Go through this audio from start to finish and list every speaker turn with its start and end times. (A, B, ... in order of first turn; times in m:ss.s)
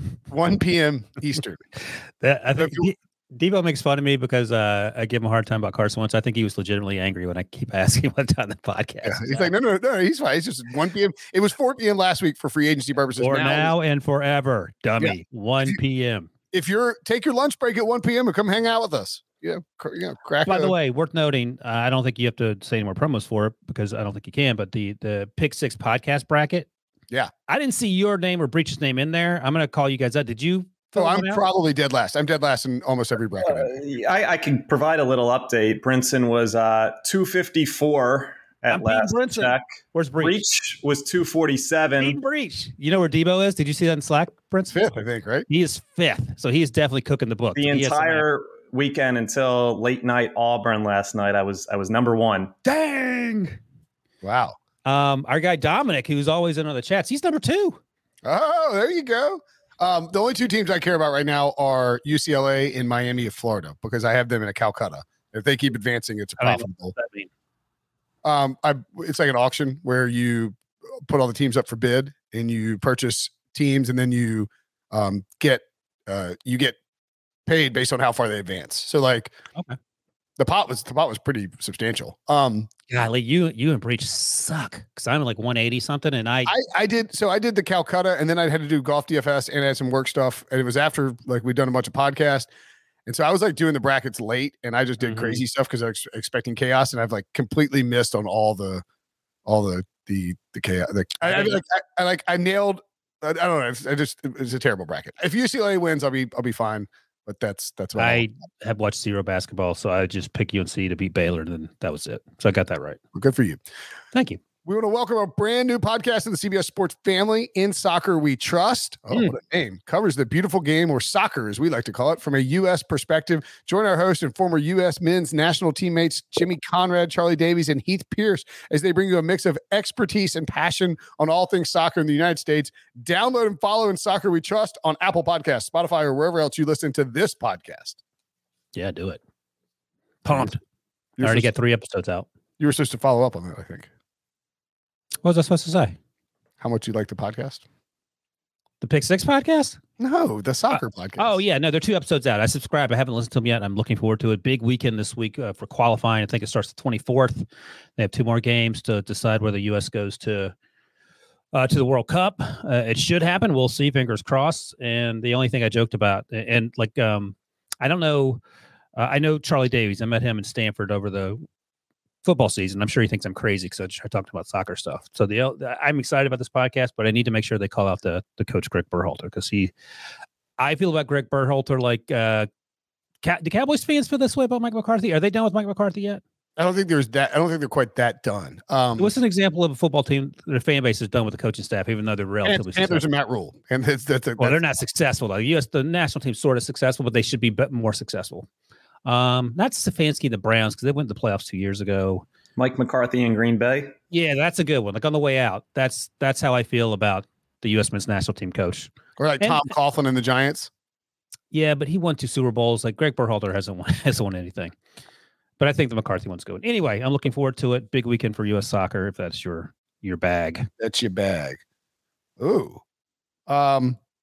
0:00.3-0:01.6 A
0:02.2-0:09.5 B
0:02.6-0:02.9 A
0:09.0-0:13.7 A
0:13.2-0:16.3 B
0:15.0-0:15.8 A
0:16.5-0:20.7 A
0:20.4-0:26.7 B
0:27.5-0:31.4 B
0:31.0-0:33.7 A
0:33.4-0:39.6 C
0:38.7-0:40.4 B
0:40.2-0:42.2 C
0:42.0-0:44.8 B
0:44.7-0:45.5 A
0:45.5-0:48.2 B
0:47.6-0:52.5 C
0:52.6-0:53.6 B
0:54.2-0:54.6 A
0:54.8-0:57.8 B
0:58.2-1:06.9 A
1:06.4-1:07.3 B
1:08.2-1:16.8 A
1:17.4-1:19.3 A
1:20.4-1:22.7 A
1:22.9-1:26.5 B
1:26.5-1:32.5 A
1:33.0-1:38.8 A
1:35.0-1:35.4 B
1:39.4-1:48.2 A
1:41.2-1:41.6 B
1:48.0-1:53.0 B
1:53.1-1:53.6 A
1:54.1-1:54.4 B
1:54.6-2:18.0 A
2:18.7-2:19.2 B
2:20.2-2:20.6 B
2:21.2-2:21.5 A
2:21.2-2:22.3 B
2:22.6-2:23.9 A
2:25.2-2:26.0 B
2:26.6-2:27.6 A
2:28.8-2:29.8 B
2:30.0-2:31.4 A
2:30.7-2:40.5 B
2:41.5-2:48.4 B
2:48.9-2:51.4 B
2:52.2-2:59.7 B
3:00.6-3:02.5 B
3:03.2-3:06.2 B
3:06.6-3:09.1 A
3:09.0-3:13.0 B
3:12.4-3:14.6 A
3:14.4-3:18.5 B
3:19.0-3:22.2 B
3:22.6-3:23.9 C
3:24.1-3:29.7 B
3:29.2-3:30.7 A
3:31.5-3:34.7 B
3:35.6-3:40.7 B
3:40.8-3:41.6 A
3:42.4-3:42.8 A
3:43.5-3:44.0 A